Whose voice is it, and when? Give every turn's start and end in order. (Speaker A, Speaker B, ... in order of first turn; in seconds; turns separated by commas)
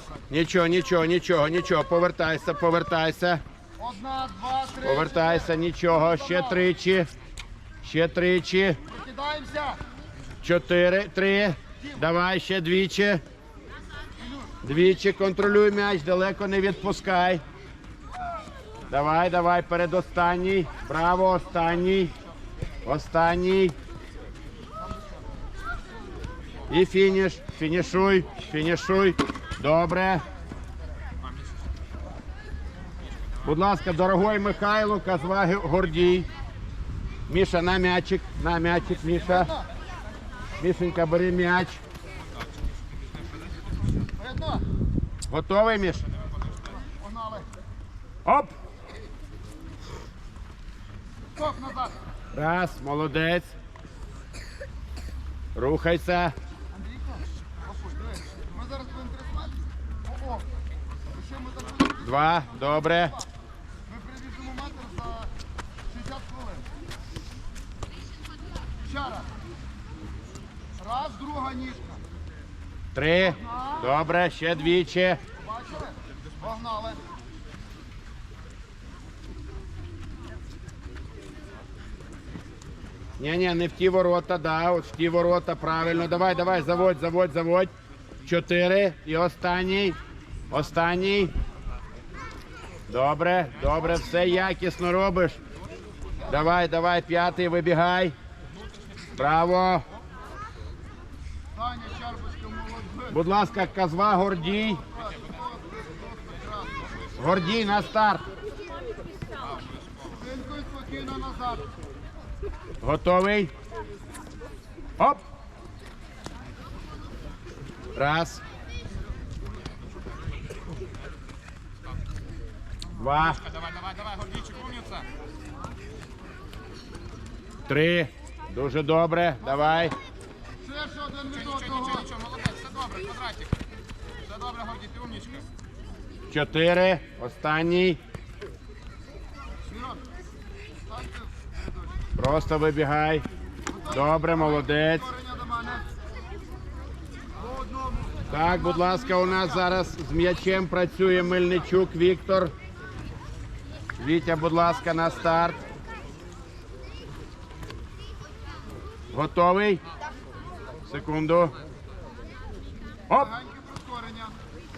Speaker A: 0.3-3.4, Speaker B: 3.8-4.7, Speaker A: 4.6-7.1, Speaker A: 7.8-8.8, Speaker B: 9.0-9.8, Speaker A: 10.4-13.2, Speaker A: 14.6-17.4, Speaker A: 18.9-22.1, Speaker A: 22.8-23.7, Speaker A: 26.7-30.2, Speaker A: 33.4-36.2, Speaker A: 37.3-39.5, Speaker A: 40.6-41.8, Speaker B: 44.2-44.6, Speaker A: 45.3-46.0, Speaker B: 47.0-47.4, Speaker A: 48.2-48.5, Speaker B: 51.4-51.9, Speaker A: 52.3-53.5, Speaker A: 55.5-56.3, Speaker B: 57.7-60.4, Speaker A: 62.0-63.2, Speaker B: 63.9-65.3, Speaker B: 65.9-66.6, Speaker B: 68.8-69.2, Speaker B: 70.8-72.0, Speaker A: 72.9-75.2, Speaker B: 75.6-77.0, Speaker A: 83.2-87.7, Speaker A: 88.2-90.0, Speaker A: 90.5-91.3, Speaker A: 92.9-95.4, Speaker A: 96.2-98.1, Speaker A: 99.1-99.8, Speaker B: 101.6-103.0, Speaker A: 103.1-104.8, Speaker B: 105.0-106.7, Speaker A: 107.2-108.2, Speaker B: 110.1-111.7, Speaker A: 112.8-113.5, Speaker A: 117.9-118.4, Speaker A: 123.0-123.4, Speaker C: 123.5-125.0, Speaker A: 127.7-129.9, Speaker B: 130.6-133.1, Speaker C: 132.3-133.5, Speaker B: 134.3-134.6, Speaker C: 134.5-135.4, Speaker A: 136.3-138.0, Speaker B: 139.7-140.0, Speaker A: 142.2-143.2, Speaker A: 143.8-145.1, Speaker B: 145.2-145.9, Speaker A: 148.3-152.5, Speaker A: 154.0-155.6, Speaker A: 159.1-159.8, Speaker A: 160.9-161.5, Speaker A: 163.1-163.4, Speaker B: 163.4-164.3